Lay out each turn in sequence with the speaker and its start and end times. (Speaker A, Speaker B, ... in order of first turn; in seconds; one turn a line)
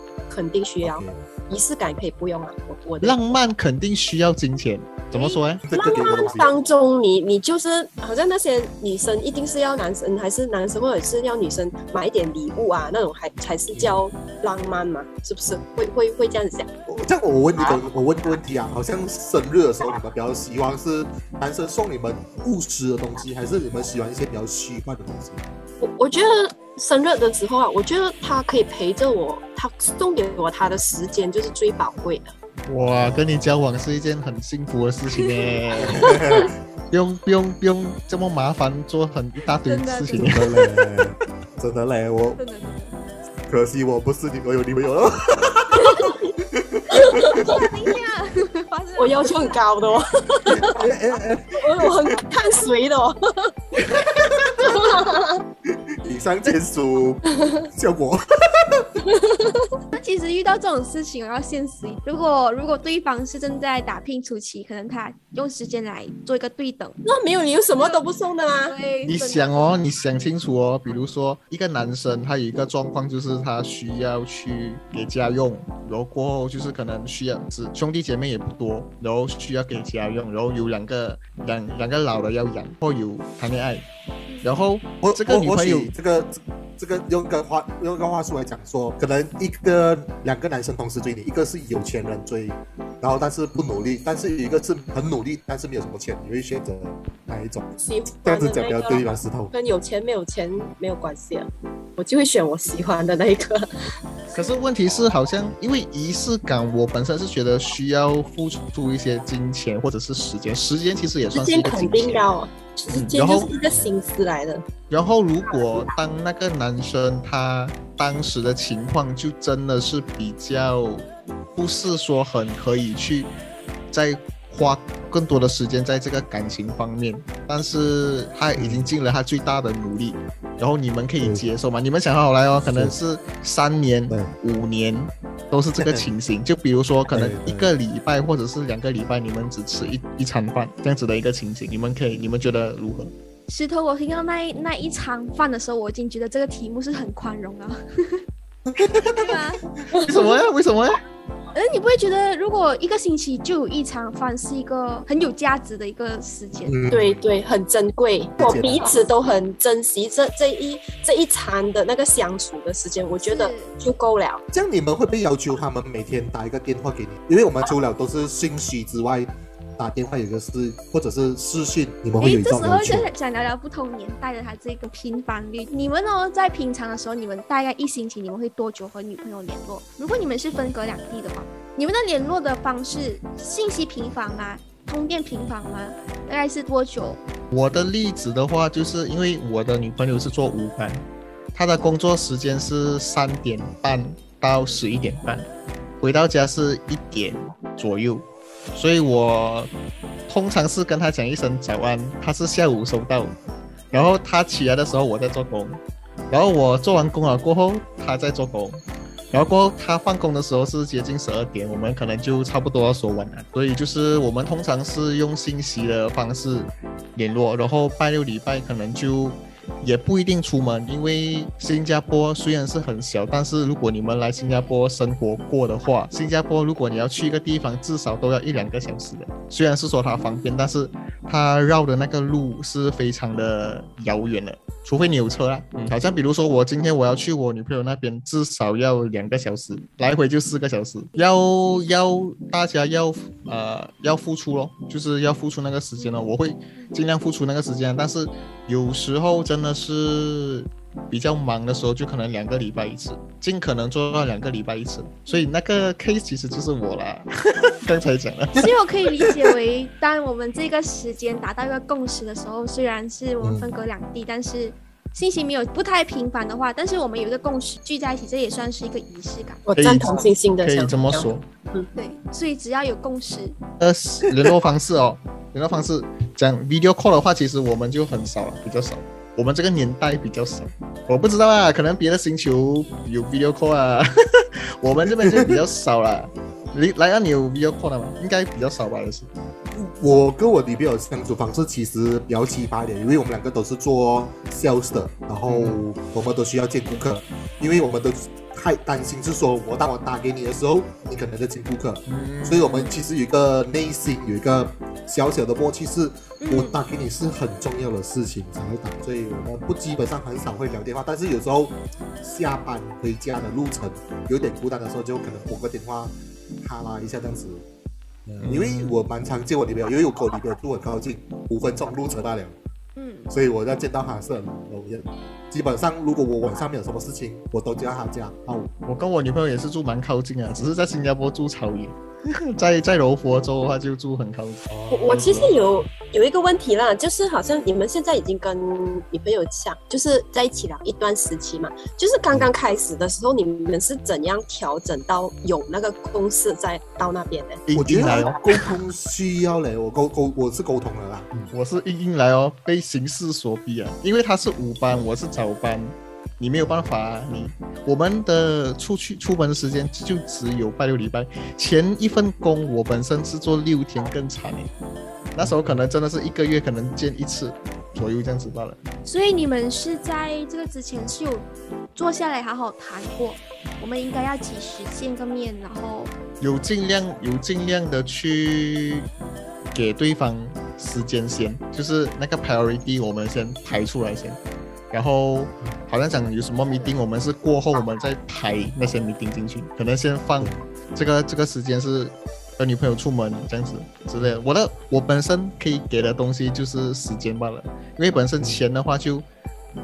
Speaker A: 0.3-3.2
Speaker B: 0.8-1.2
Speaker C: 3.0-5.6
Speaker A: 5.1-16.7
Speaker B: 5.6-6.5
Speaker B: 16.9-25.5
Speaker A: 25.8-32.3
Speaker C: 32.7-40.7
Speaker D: 35.2-35.5
Speaker B: 35.8-36.5
Speaker D: 39.6-40.4
Speaker B: 40.2-42.4
Speaker D: 42.4-42.9
Speaker B: 43.5-47.7
Speaker A: 46.9-47.6
Speaker D: 47.0-49.5
Speaker A: 49.0-50.9
Speaker B: 50.5-51.9
Speaker A: 51.6-53.5
Speaker B: 54.2-54.8
Speaker A: 54.6-55.4
Speaker B: 56.0-58.9
Speaker A: 59.1-59.7
Speaker D: 59.9-67.0
Speaker A: 67.0-68.8
Speaker D: 67.8-68.0
Speaker D: 68.7-69.7
Speaker C: 69.0-83.8
Speaker C: 84.4-85.9
Speaker B: 85.0-99.5
Speaker A: 97.8-103.7
Speaker C: 104.3-112.3
Speaker B: 104.8-105.1
Speaker A: 111.3-114.7
Speaker C: 112.9-113.5
Speaker C: 114.9-123.3
Speaker C: 123.9-143.1
Speaker B: 128.5-128.9
Speaker B: 132.6-132.9
Speaker B: 135.8-136.1
Speaker B: 137.1-137.7
Speaker D: 143.5-148.2
Speaker B: 148.7-149.4
Speaker D: 149.1-149.6
Speaker A: 149.9-150.4
Speaker C: 150.0-150.9
Speaker D: 151.5-156.8
Speaker B: 156.7-157.2
Speaker A: 156.9-164.4
Speaker B: 158.4-159.0
Speaker D: 163.2-163.7
Speaker B: 164.5-173.1
Speaker D: 172.2-187.2
Speaker C: 187.5-191.0
Speaker C: 191.5-195.5
Speaker D: 194.5-194.8
Speaker C: 196.0-199.7
Speaker C: 200.3-203.3
Speaker C: 203.9-257.3
Speaker D: 224.4-224.7
Speaker D: 246.0-246.9
Speaker C: 257.8-258.7
Speaker D: 258.5-269.6
Speaker B: 263.4-263.7
Speaker A: 269.6-271.9
Speaker C: 269.8-271.4
Speaker D: 271.9-273.6
Speaker C: 273.8-289.3
Speaker B: 285.0-285.6
Speaker B: 289.7-317.6
Speaker C: 295.4-295.8
Speaker C: 302.1-302.8
Speaker D: 302.7-303.0
Speaker D: 306.4-306.8
Speaker B: 318.2-322.6
Speaker C: 318.4-319.0
Speaker D: 322.9-323.3
Speaker B: 323.3-328.7
Speaker C: 328.8-335.4
Speaker B: 334.7-335.7
Speaker A: 334.9-347.6
Speaker C: 347.7-348.4
Speaker B: 347.7-351.5
Speaker C: 351.5-364.7
Speaker C: 365.3-368.8
Speaker B: 365.4-365.8
Speaker D: 369.0-376.1
Speaker C: 376.4-379.1
Speaker C: 379.7-384.4
Speaker C: 384.9-399.2